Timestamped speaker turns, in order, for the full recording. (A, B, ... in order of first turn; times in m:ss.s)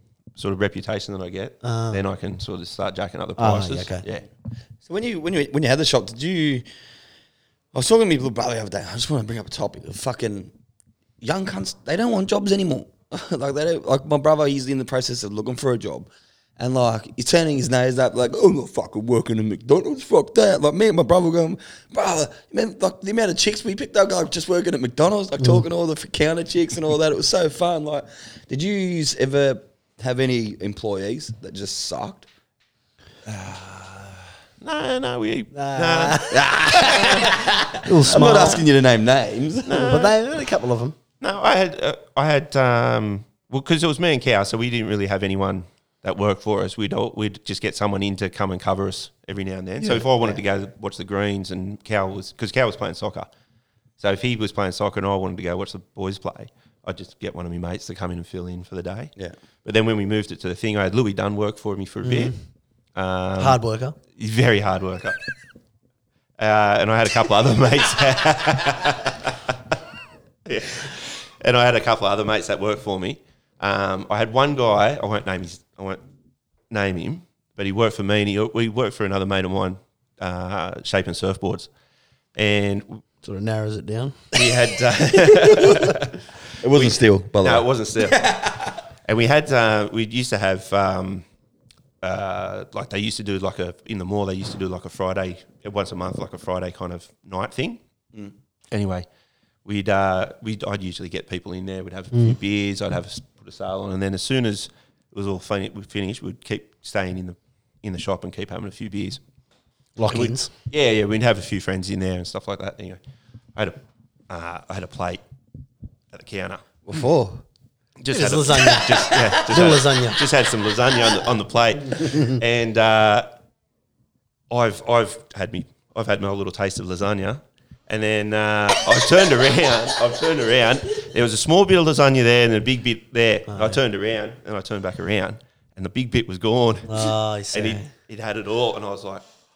0:00.4-0:04.2 A
0:01.6-0:02.0 B
0:03.4-0:04.0 B
0:04.8-0:06.6 C
0:07.7-0:10.5 C
0:11.2-0:32.3 C
0:33.3-0:37.3 A
0:35.5-0:36.4 B
0:36.3-0:39.7 C
0:37.8-0:38.6 B
0:39.6-0:40.2 A
0:39.7-0:41.0 B
0:41.2-0:53.3 A
0:54.0-0:59.1 A
0:59.6-1:02.3 A
1:02.0-1:02.3 B
1:02.9-1:03.6 A
1:03.4-1:04.0 B
1:04.1-1:05.2 A
1:06.4-1:09.8 A
1:10.4-1:16.0 A
1:16.7-1:21.7 A
1:22.4-1:23.0 A
1:23.2-1:24.3 B
1:24.3-1:26.2 A
1:26.6-1:28.8 C
1:26.7-1:28.4 A
1:29.0-1:31.2 A
1:32.0-1:37.8 A
1:38.7-1:39.0 A
1:39.6-1:49.2 A
1:42.1-1:42.4 B
1:50.0-1:50.5 B
1:50.1-1:53.0 A
1:54.3-1:55.2 A
1:56.1-1:56.6 A
1:56.9-1:57.4 C
1:58.0-2:03.3 A
1:58.1-2:00.2 B
2:02.0-2:02.3 B
2:04.5-2:19.2 A
2:13.5-2:13.8 B
2:16.8-2:17.9 B